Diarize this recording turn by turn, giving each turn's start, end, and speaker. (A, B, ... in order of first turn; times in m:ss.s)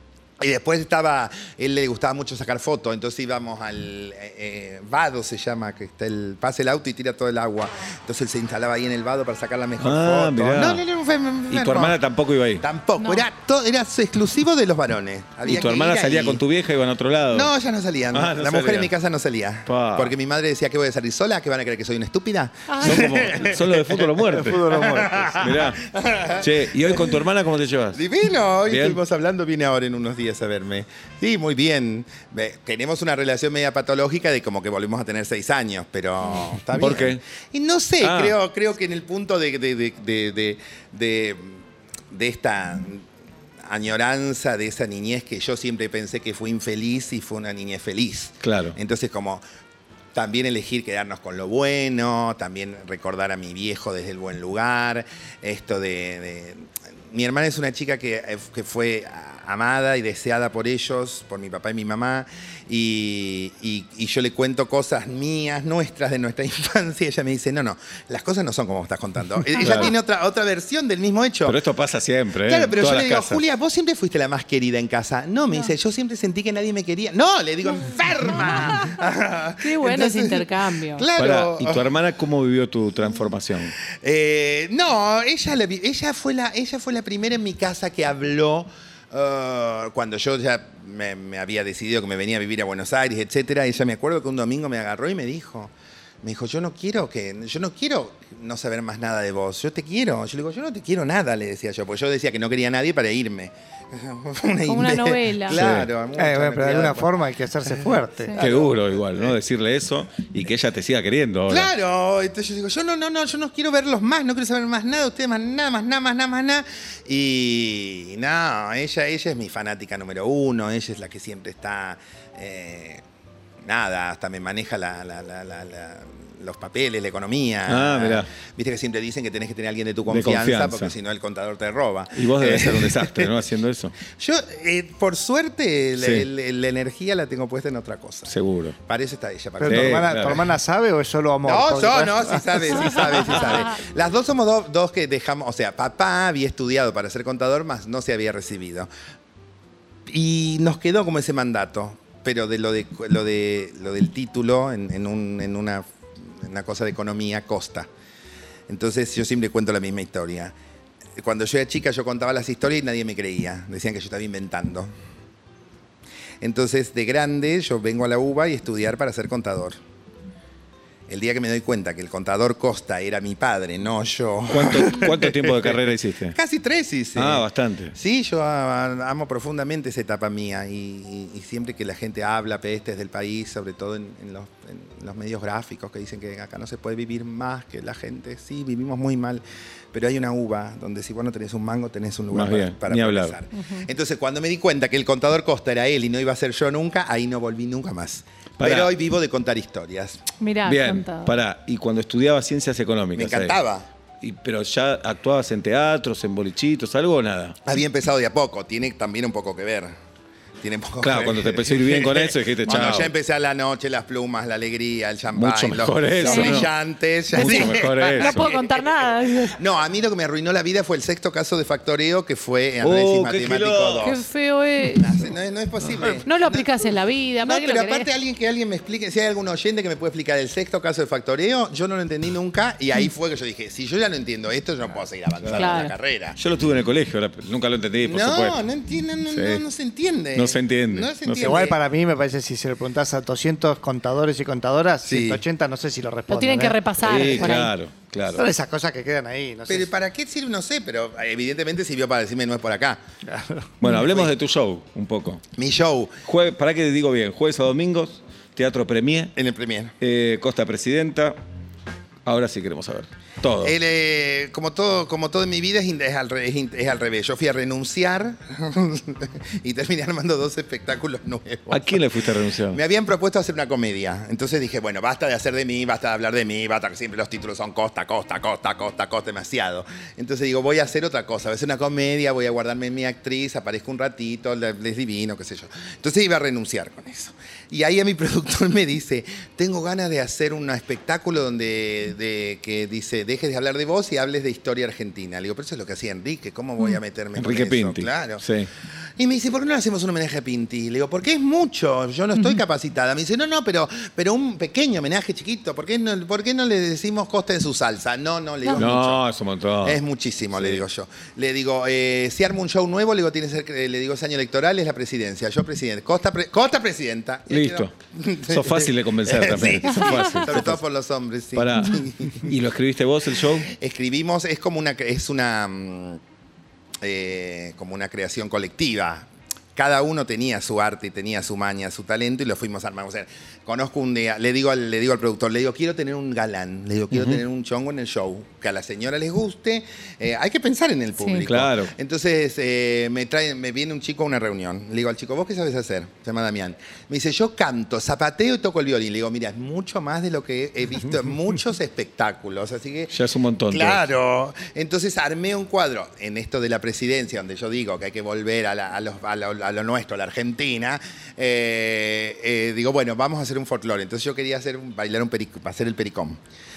0:00.4-0:12.0 A
0:09.8-0:10.8 B
0:11.5-0:12.6 B
0:12.6-0:16.4 A
0:13.0-0:13.2 C
0:15.4-0:17.5 B
0:17.3-0:27.2 A
0:18.1-0:18.9 B
0:19.7-0:20.1 B
0:22.7-0:23.1 C
0:22.8-0:28.0 B
0:24.2-0:25.5 D
0:27.9-0:43.1 A
0:28.7-0:29.0 B
0:36.7-0:37.2 B
0:38.0-0:38.4 B
0:43.6-0:49.4 A
0:48.4-0:48.8 B
0:50.1-1:11.6 A
1:09.6-1:09.9 B
1:09.6-1:09.8 C
1:11.5-1:13.4 B
1:12.4-1:21.9 A
1:18.4-1:19.0 C
1:19.6-1:21.1 C
1:21.2-1:23.7 B
1:23.9-1:47.1 A
1:44.7-1:45.6 C
1:45.5-1:45.9 B
1:46.2-1:48.4 D
1:47.6-1:49.3 A
1:48.4-1:51.7 B
1:51.5-2:03.0 A
2:03.6-2:13.3 A
2:07.7-2:08.3 B
2:10.1-2:10.9 B
2:12.2-2:14.0 B
2:14.1-2:18.3 A
2:16.0-2:16.3 B
2:18.3-2:18.8 B
2:18.8-2:20.3 A
2:19.6-2:23.4 D
2:19.6-2:20.5 B
2:21.4-2:28.9 A
2:30.1-2:37.9 A
2:38.7-2:40.6 A
2:41.2-2:44.9 A
2:46.4-2:49.8 A
2:51.1-2:55.8 A
2:54.5-2:56.4 B
2:56.3-3:20.2 A
2:57.2-2:58.0 B
3:12.3-3:13.4 B
3:13.6-3:13.8 C
3:18.6-3:18.9 B
3:20.4-3:21.3 C
3:20.6-3:23.6 B
3:23.2-3:23.9 A
3:24.2-3:27.6 B
3:27.6-3:30.0 A
3:30.6-3:44.3 A
3:31.0-3:33.1 B
3:35.3-3:36.7 B
3:36.2-3:36.7 C
3:37.3-3:38.5 B
3:37.3-3:39.6 C
3:42.8-3:44.1 B
3:44.0-3:45.2 C
3:44.9-3:46.7 A
3:46.2-3:48.1 C
3:47.4-3:56.4 A
3:55.4-3:55.8 B
3:55.6-3:55.9 C
3:56.4-3:58.6 B
3:58.0-4:01.8 A
3:59.3-3:59.6 B
4:00.3-4:01.7 B
4:01.4-4:06.8 D
4:05.0-4:05.4 A
4:06.3-4:07.7 C
4:07.0-4:08.5 B
4:08.4-4:09.9 D
4:09.7-4:13.0 A
4:13.3-4:13.7 D
4:13.8-4:15.4 B
4:14.0-4:14.3 A
4:15.5-4:16.2 A
4:16.2-4:19.3 B
4:19.4-4:19.9 A
4:20.0-4:21.4 B
4:22.3-4:23.8 B
4:23.6-4:32.1 A
4:31.7-4:32.8 B
4:32.7-4:58.4 A
4:57.4-4:58.7 B
4:59.2-5:09.2 A
5:02.4-5:02.6 C
5:08.8-5:10.0 B
5:09.8-5:22.6 A
5:10.5-5:10.8 B
5:17.5-5:20.8 B
5:19.9-5:20.4 C
5:21.5-5:23.7 B
5:23.4-5:26.2 A
5:27.0-5:53.1 A
5:37.1-5:37.4 B
5:41.4-5:41.9 B
5:53.1-5:54.0 B
5:53.7-6:06.4 A